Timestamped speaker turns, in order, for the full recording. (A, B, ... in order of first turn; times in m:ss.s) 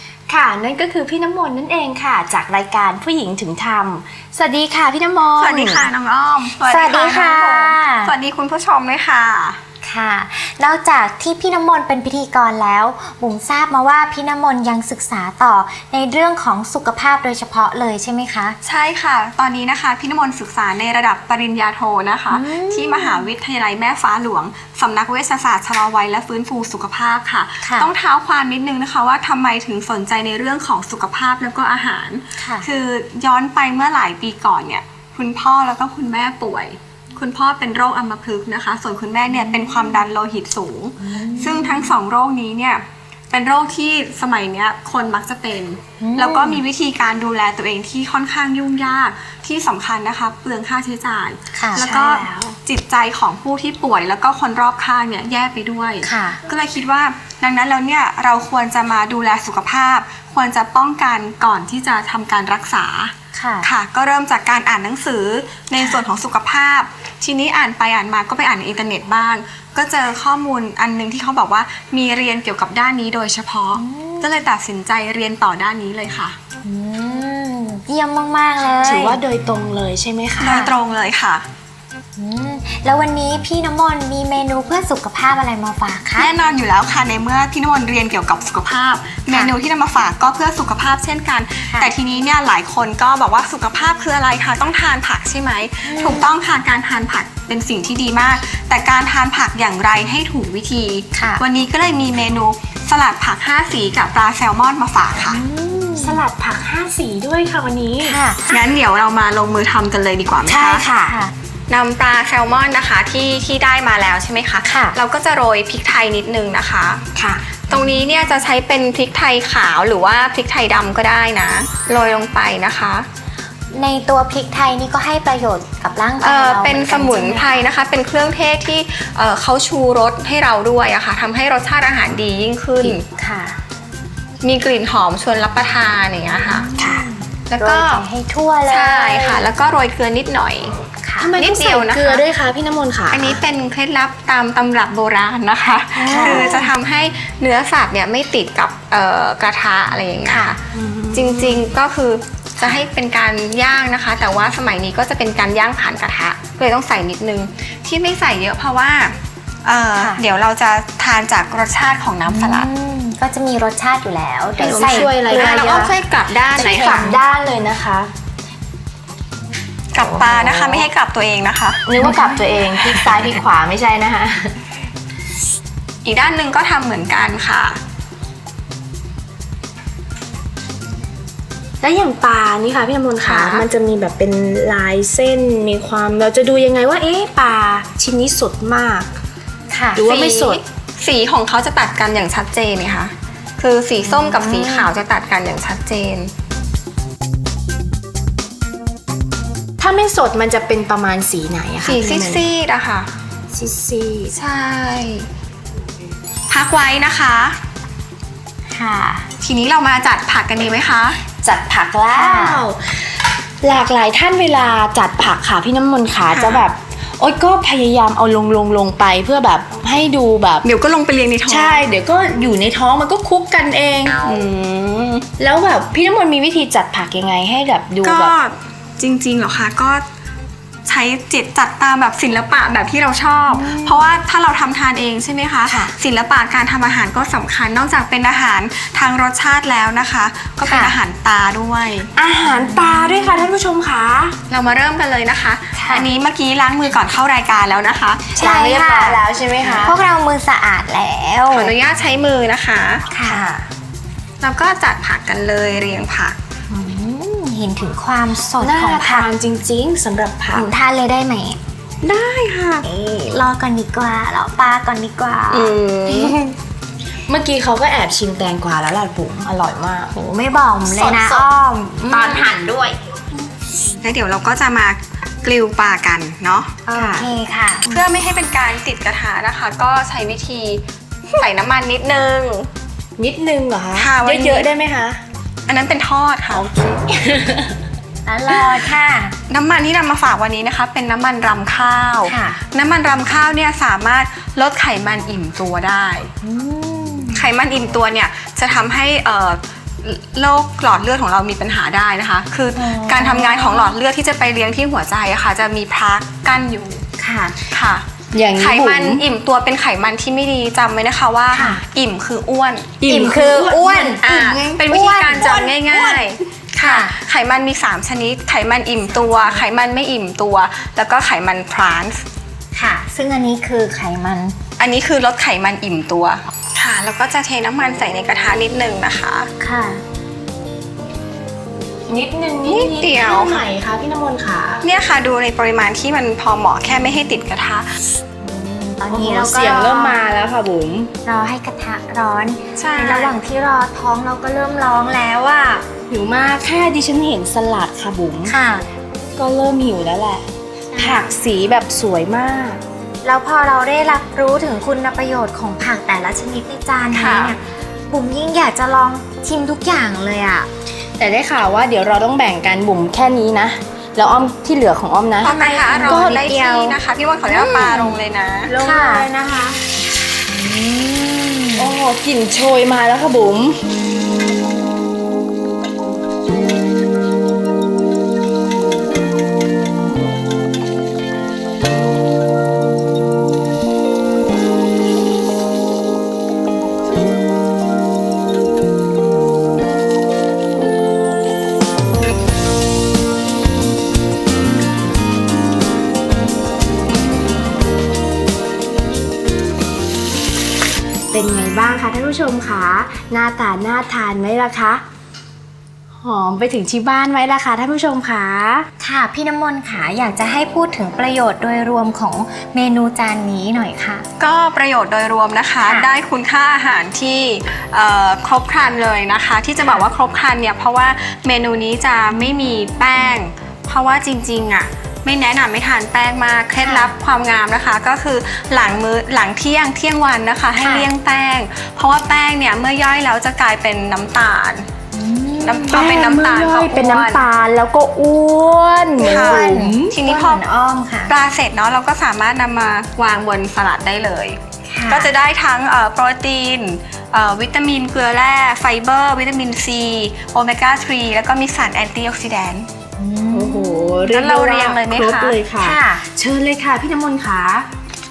0:00.3-0:05.9 A
0:05.4-0:09.6 B
0:06.6-0:08.1 C
0:09.8-0:18.6 C
0:18.6-1:16.4 B
0:22.3-0:23.3 C
0:27.6-0:27.9 C
0:32.4-0:32.7 C
0:39.3-0:40.0 C
0:41.0-0:42.0 C
0:46.0-0:46.6 C
0:51.5-0:51.9 C
0:51.7-0:52.6 A
0:56.0-0:56.4 C
1:03.3-1:03.7 C
1:13.7-1:14.3 C
1:16.6-1:19.2 C
1:18.8-1:20.6 A
1:20.4-1:21.4 B
1:20.4-1:20.7 C
1:22.2-1:26.3 C
1:26.2-1:45.4 B
1:35.8-1:36.3 C
1:41.1-1:41.4 C
1:45.3-1:46.2 C
1:46.0-1:48.2 A
1:48.0-1:48.6 C
1:48.5-1:50.8 B
1:50.5-1:51.3 C
1:50.5-1:51.2 A
1:51.7-1:57.0 B
1:54.7-1:55.0 C
1:57.2-1:57.4 A
1:57.7-2:03.0 B
2:03.7-2:07.6 C
2:06.2-2:13.0 B
2:12.8-2:13.6 C
2:14.4-2:16.7 B
2:16.4-2:19.5 C
2:16.8-2:17.1 A
2:17.5-2:18.0 B
2:18.6-2:20.8 B
2:21.0-2:21.3 C
2:21.2-2:23.4 A
2:21.3-2:22.2 B
2:23.1-2:30.6 B
2:26.0-2:26.7 A
2:26.0-2:26.7 C
2:30.2-2:30.6 C
2:30.7-2:31.6 A
2:31.1-2:42.7 B
2:32.6-2:32.8 C
2:40.0-2:40.2 C
2:42.3-2:45.9 C
2:44.6-2:46.0 A
2:44.6-2:47.2 B
2:46.5-2:48.1 A
2:46.7-2:47.1 C
2:49.9-2:53.4 B
2:50.0-2:50.9 A
2:51.9-2:54.6 A
2:52.0-2:52.4 C
2:56.0-2:57.8 B
3:01.8-3:09.1 A
3:03.2-3:03.6 B
3:09.7-3:10.0 C
3:09.9-3:10.6 A
3:10.0-3:16.3 B
3:14.1-3:14.8 C
3:14.4-3:14.7 A
3:19.8-3:22.4 A
3:21.8-3:23.1 B
3:23.5-3:24.4 A
3:24.3-3:25.3 B
3:26.5-3:27.6 B
3:28.7-3:29.3 C
3:29.4-3:31.2 B
3:31.4-3:33.0 A
3:32.1-3:32.6 C
3:33.6-3:40.6 A
3:36.3-3:36.6 B
3:40.6-3:41.9 B
3:41.5-3:44.2 A
3:44.2-3:45.3 B
3:45.4-3:48.3 A
3:48.0-3:50.0 B
3:50.8-4:02.1 B
3:53.5-3:54.1 C
3:55.7-3:55.9 A
4:00.6-4:01.0 C
4:02.1-4:04.4 A
4:02.4-4:03.5 C
4:04.5-4:08.3 B
4:05.8-4:06.1 C
4:08.3-4:09.2 C
4:08.4-4:10.0 A
4:09.6-4:09.9 B
4:09.8-4:11.7 C
4:11.5-4:13.1 B
4:13.1-4:13.4 C
4:13.2-4:13.6 A
4:14.4-4:16.4 B
4:16.7-4:19.3 C
4:18.6-4:20.7 A
4:20.5-4:21.6 C
4:22.0-4:22.9 B
4:22.8-4:26.3 C
4:25.5-4:26.5 B
4:27.3-4:30.1 A
4:30.1-4:32.5 C
4:30.9-4:31.5 A
4:32.1-4:33.0 A
4:33.9-4:36.7 B
4:36.8-4:38.0 C
4:36.9-4:37.3 A
4:37.8-4:40.8 B
4:41.3-4:42.7 B
4:43.2-4:45.2 A
4:43.9-4:44.7 B
4:45.7-4:47.0 B
4:47.1-4:47.7 A
4:48.2-4:49.4 C
4:48.5-4:48.9 B
4:49.5-4:56.3 B
4:52.2-4:52.6 C
4:56.4-4:57.4 C
4:57.3-5:07.0 B
5:02.7-5:03.9 C
5:07.2-5:07.6 C
5:07.7-5:13.0 B
5:08.3-5:09.2 A
5:11.5-5:11.8 C
5:13.0-5:14.2 A
5:13.0-5:16.2 C
5:14.2-5:22.2 B
5:16.8-5:17.1 C
5:19.2-5:19.6 C
5:22.7-5:24.6 C
5:24.8-5:29.5 B
5:29.6-5:30.0 C
5:32.1-5:34.8 A
5:32.6-5:33.7 B
5:34.8-5:37.9 B
5:38.4-5:40.3 C
5:39.1-5:41.1 A
5:41.2-5:45.8 C
5:42.8-5:43.4 B
5:46.1-5:48.5 A
5:48.4-5:48.8 C
5:49.3-5:50.4 A
5:50.9-5:51.3 C
5:51.0-5:52.8 A
5:53.2-6:00.7 C
5:57.1-5:57.6 B
6:01.2-6:06.5 A
6:05.4-6:08.7 B
6:05.4-6:08.2 C
6:08.6-6:09.8 A
6:08.8-6:09.3 C
6:10.5-6:11.9 C
6:11.7-6:13.8 A
6:41.3-6:45.0 A
6:46.2-6:48.9 A
6:49.0-6:54.2 C
6:54.4-7:14.9 B
6:59.8-7:00.0 C
7:06.8-7:07.1 C
7:10.8-7:11.1 C
7:15.1-7:16.1 C
7:15.6-7:17.4 B
7:15.9-7:20.2 A
7:19.2-7:21.3 C
7:19.2-7:20.6 B
7:21.3-7:32.9 B
7:24.9-7:25.3 C
7:33.2-7:34.3 C
7:33.5-7:37.9 A
7:34.3-7:35.6 B
7:35.8-7:36.2 C